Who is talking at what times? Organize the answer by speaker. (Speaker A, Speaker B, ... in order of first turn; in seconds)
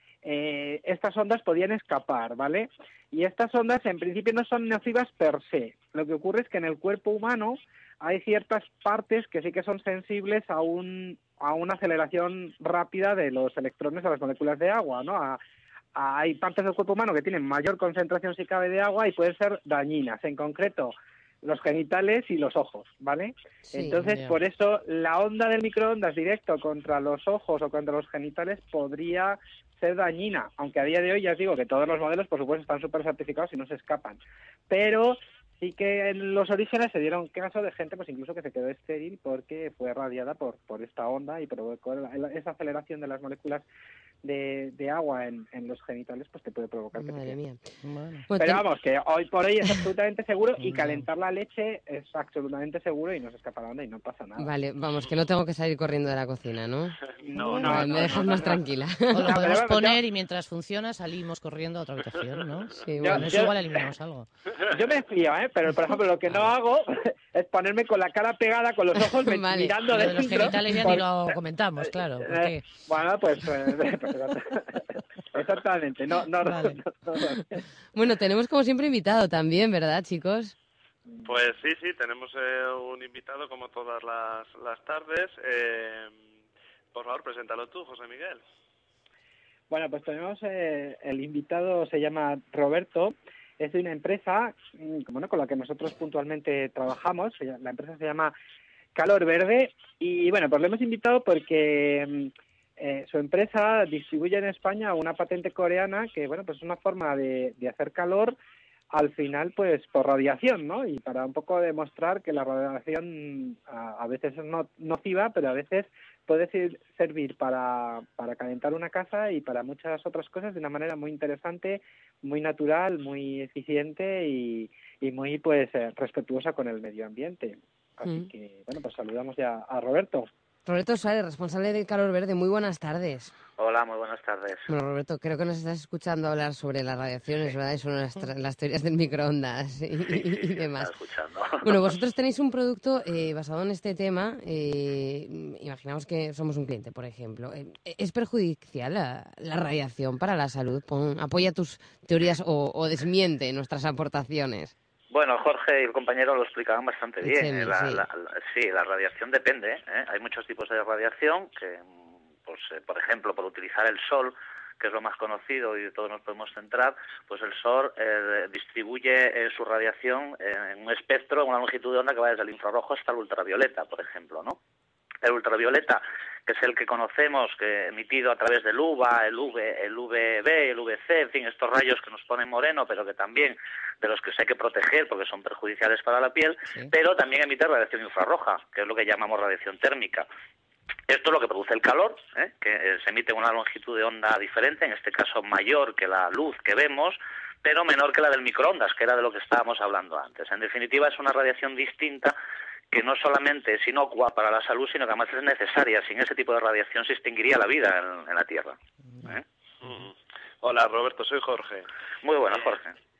Speaker A: 0.2-15.4, 15.9-43.6, 44.2-47.4, 48.4-54.5, 57.2-58.6, 59.2-60.0, 63.0-63.5, 64.7-71.0, 72.2-77.6, 81.1-81.3, 89.7-98.3, 99.0-108.3, 108.9-130.3
Speaker B: 23.7-24.0, 47.0-47.7, 48.3-48.6, 54.4-59.4, 62.8-63.3, 69.3-69.8, 77.9-80.5, 130.7-133.3, 134.7-140.9, 141.6-154.7, 157.2-158.1
Speaker C: 24.0-24.4, 47.8-48.3, 50.6-51.0, 59.0-64.3, 66.3-66.5, 69.9-72.8, 76.4-76.8, 186.7-186.9
Speaker D: 57.3-58.2, 81.2-86.2, 86.9-88.4, 209.8-211.9, 212.5-212.8
Speaker E: 133.6-134.7, 140.0-141.9, 155.1-174.6, 175.2-190.3, 191.1-202.4, 202.9-209.4, 212.2-212.9